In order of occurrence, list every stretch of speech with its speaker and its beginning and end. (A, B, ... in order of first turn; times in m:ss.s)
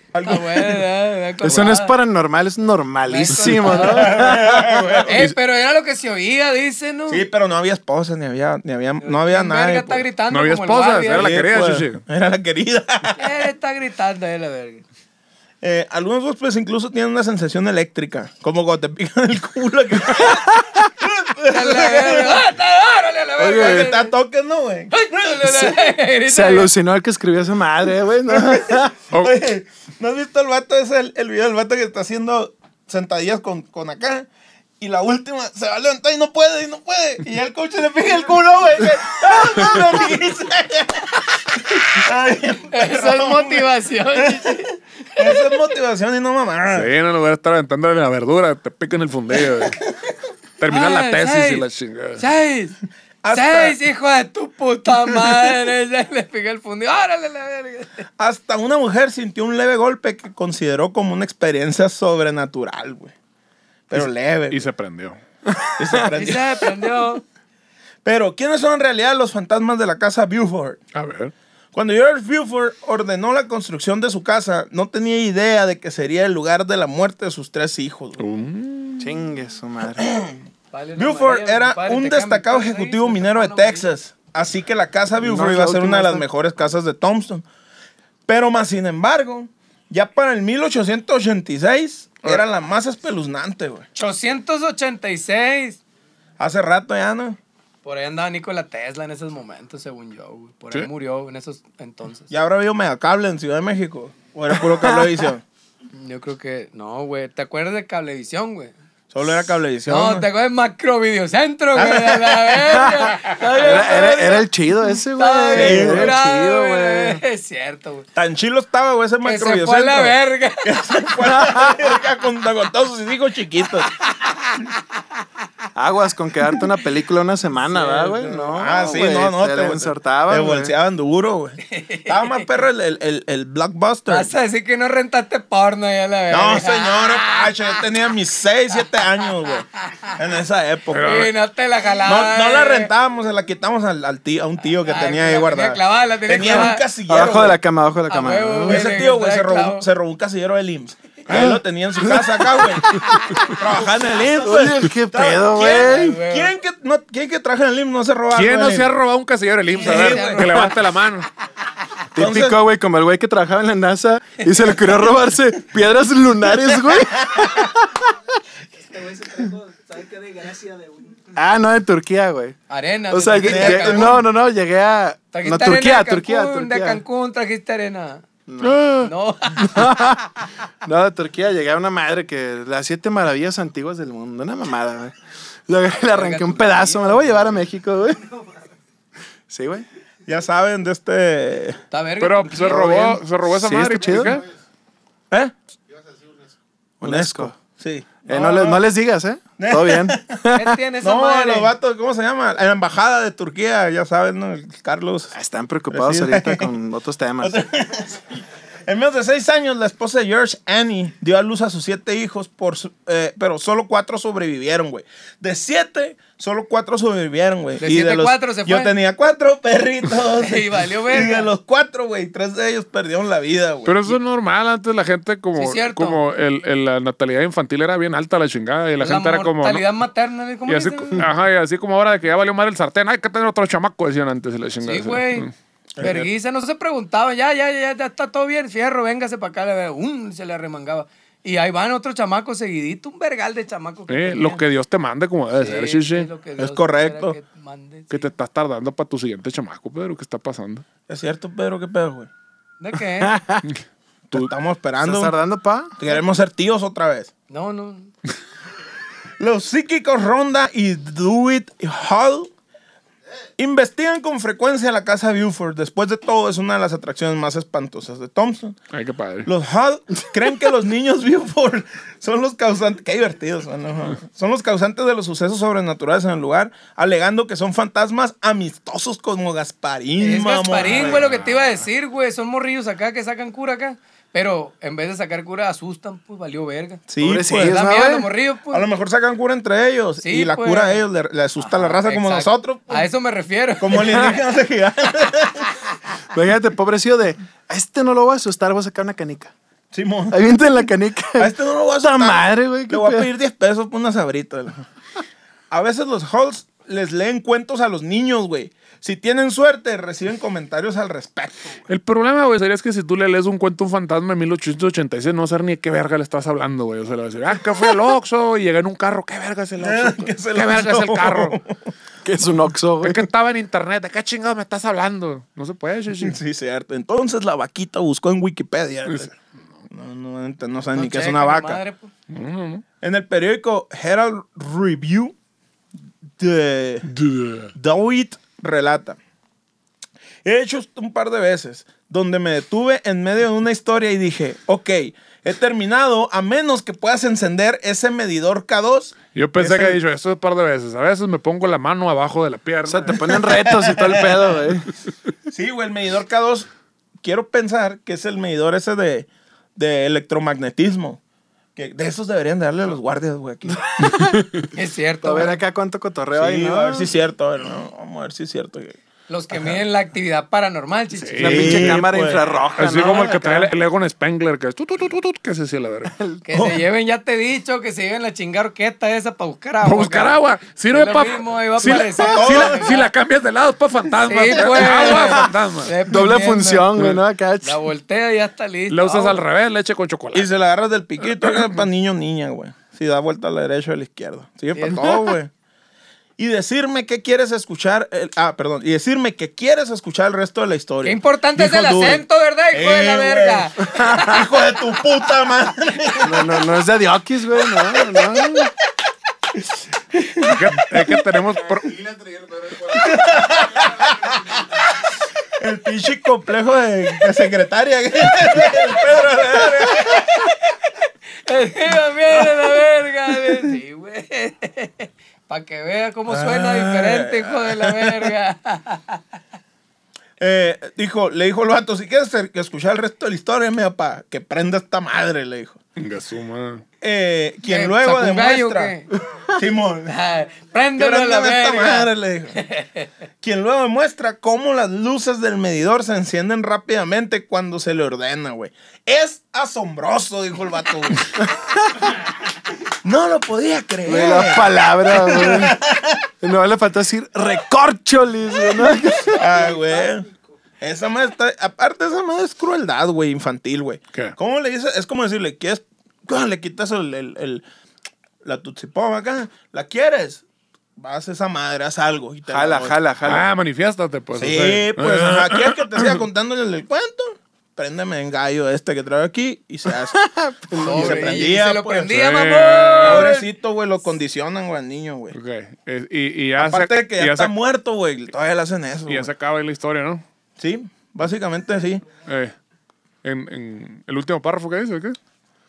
0:00.1-0:00.8 A
0:00.2-0:02.0 B
0:01.4-0:05.0 C
0:03.1-0:04.3 B
0:03.7-0:05.2 A
0:05.0-0:07.2 B
0:05.1-0:05.4 D
0:07.1-0:10.0 A
0:09.0-0:11.4 B
0:10.3-0:12.0 D
0:11.1-0:13.3 A
0:13.2-0:14.8 B
0:15.6-0:22.4 A
0:20.1-0:20.8 C
0:21.5-0:24.1 B
0:23.4-0:23.9 C
0:23.4-0:24.9 A
0:24.9-0:26.7 B
0:25.4-0:28.9 C
0:28.3-0:34.3 A
0:34.8-0:43.7 A
0:42.7-0:45.5 B
0:44.2-0:44.6 A
0:45.2-0:46.9 A
0:46.7-0:49.8 D
0:50.6-0:52.2 D
0:50.7-0:51.6 B
0:52.2-0:52.8 B
0:53.2-0:53.8 A
0:53.3-0:58.0 B
0:58.2-1:03.1 A
1:03.9-1:04.6 A
1:04.5-1:05.2 D
1:05.5-1:06.1 C
1:05.8-1:06.7 A
1:06.2-1:07.2 B
1:08.0-1:10.8 A
1:10.9-1:11.3 D
1:11.7-1:18.2 A
1:18.2-1:19.0 D
1:19.0-1:20.1 C
1:20.0-1:20.4 A
1:20.7-1:23.9 B
1:21.0-1:27.4 A
1:25.2-1:26.3 C
1:28.3-1:33.9 A
1:34.0-1:35.8 B
1:36.4-1:37.4 A
1:37.8-1:42.3 B
1:42.3-1:45.4 A
1:45.9-1:48.7 B
1:49.1-1:50.3 A
1:49.9-1:54.5 B
1:51.8-1:52.9 A
1:52.7-1:57.2 C
1:55.1-1:58.1 B
1:55.5-1:56.1 A
1:58.2-2:03.9 A
1:59.2-2:00.8 B
2:01.2-2:01.8 C
2:04.1-2:04.8 B
2:05.8-2:10.7 C
2:07.6-2:08.7 B
2:08.6-2:14.3 A
2:11.7-2:12.5 B
2:14.1-2:17.7 B
2:16.3-2:21.3 A
2:19.8-2:20.1 B
2:20.9-2:21.3 D
2:21.0-2:22.9 B
2:22.0-2:27.6 A
2:24.9-2:26.9 B
2:27.1-2:28.9 C
2:28.1-2:29.9 B
2:28.7-2:38.9 A
2:31.3-2:31.6 D
2:33.7-2:34.7 E
2:34.3-2:36.2 C
2:35.7-2:36.5 B
2:38.3-2:41.3 D
2:39.7-2:40.8 B
2:39.8-2:40.7 A
2:42.2-2:48.1 C
2:42.2-2:42.6 A
2:48.7-2:51.3 E
2:51.4-2:52.6 C
2:52.7-2:54.2 B
2:53.1-2:57.0 C
2:53.4-2:54.2 A
2:55.3-2:58.2 B
2:58.5-2:58.9 C
2:58.6-2:59.1 D
2:59.0-3:00.2 B
2:59.6-3:00.3 C
3:00.8-3:05.1 C
3:05.7-3:08.4 C
3:06.1-3:07.6 B
3:09.5-3:09.9 C
3:10.3-3:11.8 A
3:11.9-3:13.2 B
3:12.2-3:14.4 D
3:12.7-3:14.4 C
3:17.0-3:17.6 C
3:17.0-3:18.8 A
3:18.3-3:20.8 C
3:19.6-3:20.3 A
3:20.5-3:21.7 B
3:21.0-3:25.3 A
3:25.3-3:27.6 C
3:25.9-3:26.7 A
3:27.4-3:28.3 A
3:28.9-3:44.2 A
3:37.8-3:38.9 B
3:40.4-3:41.5 B
3:43.8-3:49.8 D
3:45.6-3:46.2 B
3:49.0-3:51.2 B
3:50.7-3:56.3 D
3:54.8-4:04.6 B
3:56.0-3:56.2 A
4:04.1-4:06.3 D
4:05.6-4:08.3 B
4:06.6-4:07.4 A
4:08.1-4:10.8 D
4:11.1-4:12.3 A
4:12.8-4:13.4 B
4:13.2-4:13.7 C
4:14.3-4:15.4 A
4:15.0-4:15.9 C
4:16.0-4:17.3 A
4:17.5-4:18.1 B
4:19.4-4:22.5 A
4:23.6-4:28.8 A
4:28.9-4:29.5 D
4:29.5-4:41.2 A
4:40.2-4:47.0 B
4:40.8-4:41.8 D
4:47.1-4:47.8 A
4:47.2-4:48.3 C
4:47.6-4:48.9 B
4:48.7-4:53.1 A
4:50.2-4:51.0 B
4:51.6-4:54.4 B
4:53.8-4:55.7 A
4:56.3-4:59.5 C
4:59.9-5:00.4 A
5:00.3-5:01.6 C
5:01.4-5:04.9 A
5:02.2-5:03.3 C
5:05.7-5:11.8 A
5:11.9-5:21.6 D
5:19.8-5:21.7 A
5:22.2-5:23.3 C
5:23.0-5:26.4 D
5:26.2-5:29.3 A
5:29.9-5:31.8 A
5:31.0-5:32.1 B
5:32.3-5:32.8 D
5:33.0-5:35.4 A
5:36.4-5:37.1 A
5:37.1-5:37.7 D
5:37.8-5:39.2 A
5:40.4-5:50.0 A
5:49.3-5:53.3 D
5:52.9-5:54.9 C
5:53.5-5:54.4 A
5:55.5-5:56.7 A
5:57.2-6:01.2 A
6:01.8-6:03.9 A
6:03.9-6:04.5 C
6:04.7-6:05.6 B
6:05.2-6:07.1 C
6:06.3-6:09.0 A
6:09.3-6:12.0 B
6:11.2-6:12.0 D
6:11.4-6:13.7 C
6:11.4-6:12.4 A
6:12.8-6:16.2 D
6:16.2-6:16.8 C
6:16.4-6:20.4 B
6:19.8-6:25.9 D
6:20.9-6:22.9 B
6:21.9-6:23.0 A
6:24.3-6:26.9 B
6:26.0-6:27.8 C
6:27.0-6:27.2 D
6:27.6-6:29.4 B
6:28.9-6:30.5 D
6:30.3-6:35.5 A
6:31.4-6:31.7 D
6:34.7-6:35.3 B
6:36.4-6:46.6 A
6:41.0-6:43.8 B
6:46.2-6:48.7 C
6:50.1-6:50.8 A
6:50.4-6:52.4 D
6:52.8-6:54.6 A
6:55.6-7:00.5 A
7:00.0-7:09.2 B
7:06.3-7:08.3 A
7:10.4-7:15.8 A
7:16.0-7:16.8 D
7:17.0-7:19.0 A
7:17.7-7:19.1 B
7:19.5-7:20.2 A
7:20.1-7:23.1 B
7:21.0-7:22.6 A
7:23.4-7:31.3 A
7:33.0-7:36.2 A
7:34.0-7:35.8 C
7:36.4-7:39.6 C
7:39.3-7:40.3 A
7:40.8-7:47.7 A
7:48.4-7:50.4 A
7:51.0-7:52.9 A
7:52.5-7:53.4 C
7:53.3-7:56.2 D
7:54.4-8:00.2 A
7:59.9-8:01.5 C
8:00.7-8:02.2 A
8:00.8-8:03.5 B
8:02.1-8:03.3 D
8:03.0-8:05.4 A
8:05.3-8:07.5 D
8:06.6-8:09.3 A
8:09.1-8:10.2 D
8:10.6-8:12.1 A
8:12.3-8:12.5 D
8:13.2-8:15.2 D